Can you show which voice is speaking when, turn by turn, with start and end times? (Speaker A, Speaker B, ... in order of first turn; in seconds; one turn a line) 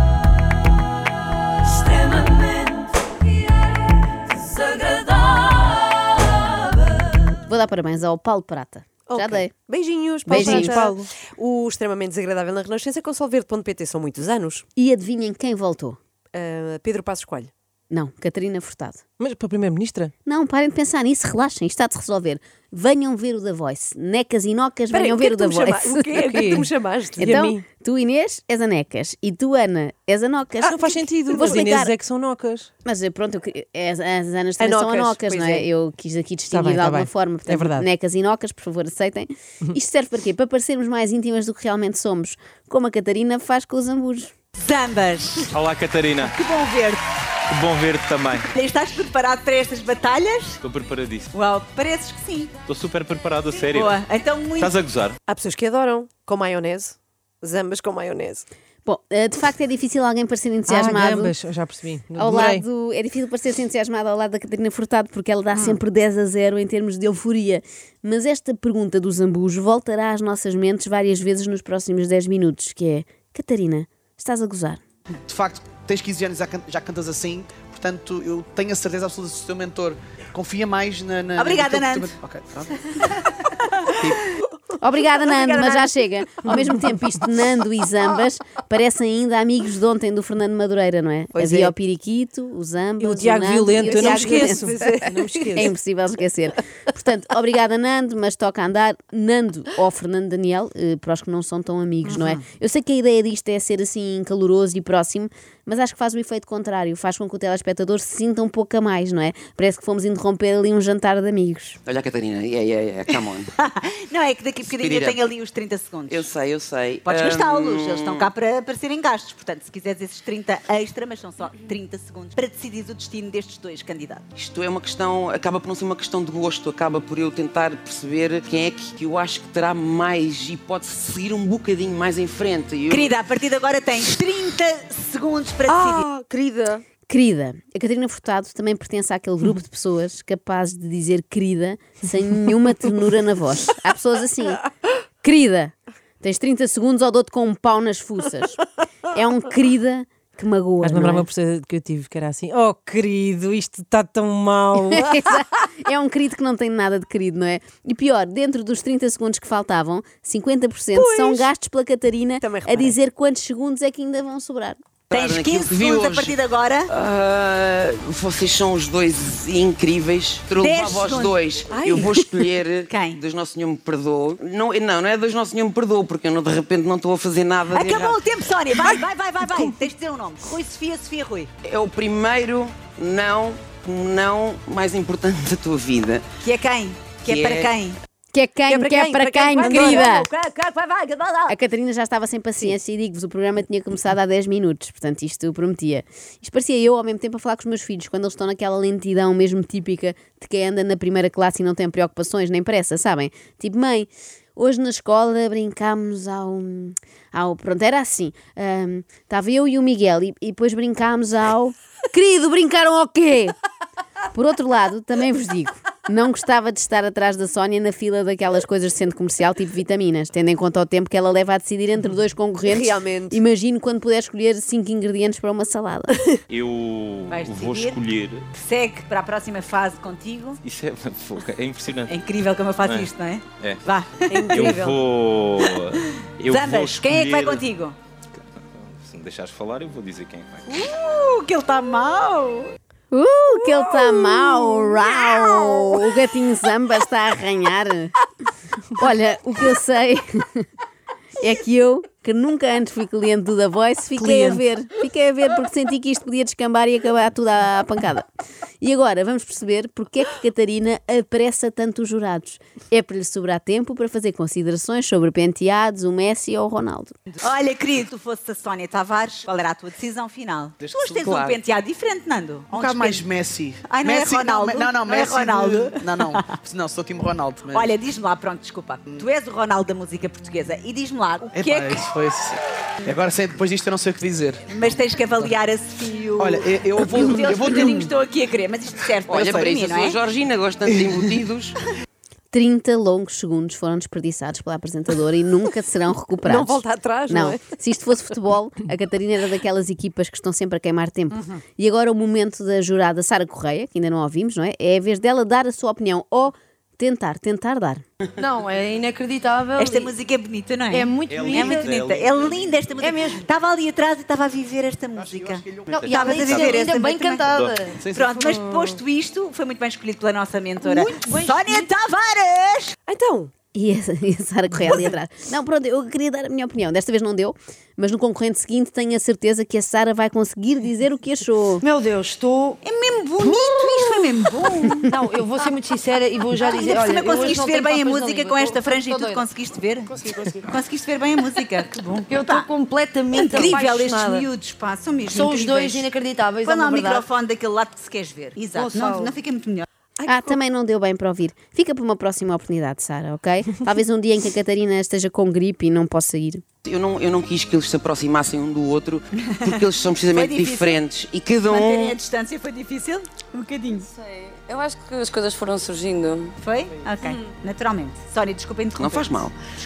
Speaker A: 1.6-3.8
Speaker A: 4.3-4.9
Speaker B: 7.4-9.5
Speaker C: 9.1-14.7
Speaker B: 10.2-10.9
Speaker D: 10.3-11.1
Speaker B: 14.8-16.0
Speaker C: 16.3-17.5
Speaker B: 17.9-19.0
Speaker D: 19.2-20.1
Speaker B: 20.2-26.3
Speaker C: 24.9-27.6
Speaker D: 26.3-26.7
Speaker B: 27.2-31.9
Speaker D: 30.6-32.7
Speaker C: 31.3-31.6
Speaker B: 32.8-44.3
Speaker C: 34.6-35.7
Speaker D: 36.5-37.9
Speaker E: 44.6-45.5
Speaker F: 45.5-46.3
Speaker E: 46.2-47.0
Speaker F: 47.5-48.5
Speaker E: 48.5-50.6
Speaker F: 50.6-51.3
Speaker E: 51.3-52.5
Speaker F: 52.6-54.0
Speaker E: 53.5-54.7
Speaker F: 54.6-55.2
Speaker C: 55.3-58.5
Speaker B: 58.8-61.4
Speaker D: 60.7-62.6
Speaker B: 62.1-74.8
Speaker G: 75.3-83.1
Speaker E: 81.4-82.1
Speaker E: 82.8-84.4
Speaker B: 84.8-94.9
Speaker E: 85.3-85.9
Speaker C: 91.3-91.7
Speaker D: 93.0-95.7
Speaker C: 93.7-95.7
Speaker B: 95.5-111.8
Speaker H: 111.8-113.5
Speaker E: 113.6-116.3
Speaker H: 114.7-115.2
Speaker H: 116.1-118.3
Speaker E: 117.0-124.3
Speaker H: 124.3-133.1
Speaker E: 132.9-136.1
Speaker C: 135.7-136.8
Speaker B: 137.1-144.6
Speaker B: 145.2-151.3
Speaker D: 150.8-155.1
Speaker B: 154.8-164.8
Speaker C: 160.9-161.5
Speaker C: 162.4-162.9
Speaker H: 165.1-166.3
Speaker E: 165.1-166.9
Speaker H: 166.9-178.2
Speaker E: 170.6-172.2
Speaker C: 171.7-172.1
Speaker E: 172.9-173.2
Speaker E: 177.7-181.5
Speaker H: 181.6-186.2
Speaker E: 186.4-188.0
Speaker H: 187.2-187.7
Speaker B: 188.3-190.3
Speaker C: 188.7-189.9
Speaker E: 189.5-191.5
Speaker B: 191.5-213.5
Speaker B: 214.3-226.2
Speaker C: 222.7-223.4
Speaker F: 226.5-228.4
Speaker E: 227.3-228.0
Speaker E: 228.5-230.6
Speaker F: 230.6-232.2
Speaker E: 232.1-234.7
Speaker F: 232.8-233.8
Speaker C: 234.3-235.0
Speaker F: 234.5-237.6
Speaker E: 235.8-237.9
Speaker F: 238.3-240.9
Speaker E: 240.7-242.7
Speaker B: 243.1-248.1
Speaker B: 248.9-250.7
Speaker B: 251.4-258.3
Speaker E: 254.2-254.6
Speaker B: 258.8-267.1
Speaker E: 267.4-273.2
Speaker G: 270.8-271.4
Speaker G: 272.7-278.0
Speaker E: 273.9-276.5
Speaker E: 277.7-282.1
Speaker G: 281.5-285.6
Speaker E: 284.7-290.2
Speaker G: 286.4-288.1
Speaker C: 287.0-287.6
Speaker H: 289.3-291.8
Speaker B: 292.5-308.0
Speaker C: 296.4-297.7
Speaker A: 308.4-310.1
Speaker E: 309.8-317.5
Speaker A: 310.9-311.9
Speaker F: 311.3-312.9
Speaker A: 313.0-313.4
Speaker G: 315.1-315.9
Speaker A: 315.9-319.0
Speaker F: 315.9-316.8
Speaker F: 317.4-317.7
Speaker G: 318.0-318.6
Speaker E: 318.1-322.9
Speaker A: 320.8-321.9
Speaker C: 323.1-323.5
Speaker B: 323.7-331.8
Speaker A: 331.8-332.8
Speaker E: 332.8-335.1
Speaker A: 333.4-334.3
Speaker A: 335.0-339.4
Speaker E: 336.6-342.7
Speaker A: 340.3-340.5
Speaker A: 342.3-344.5
Speaker E: 343.3-346.1
Speaker A: 345.3-347.3
Speaker E: 346.6-349.9
Speaker A: 348.7-349.3
Speaker C: 350.2-350.6
Speaker B: 350.2-356.6
Speaker H: 356.8-362.2
Speaker E: 360.3-361.0
Speaker E: 361.6-364.1
Speaker I: 364.2-366.5
Speaker E: 366.6-369.4
Speaker H: 369.0-369.5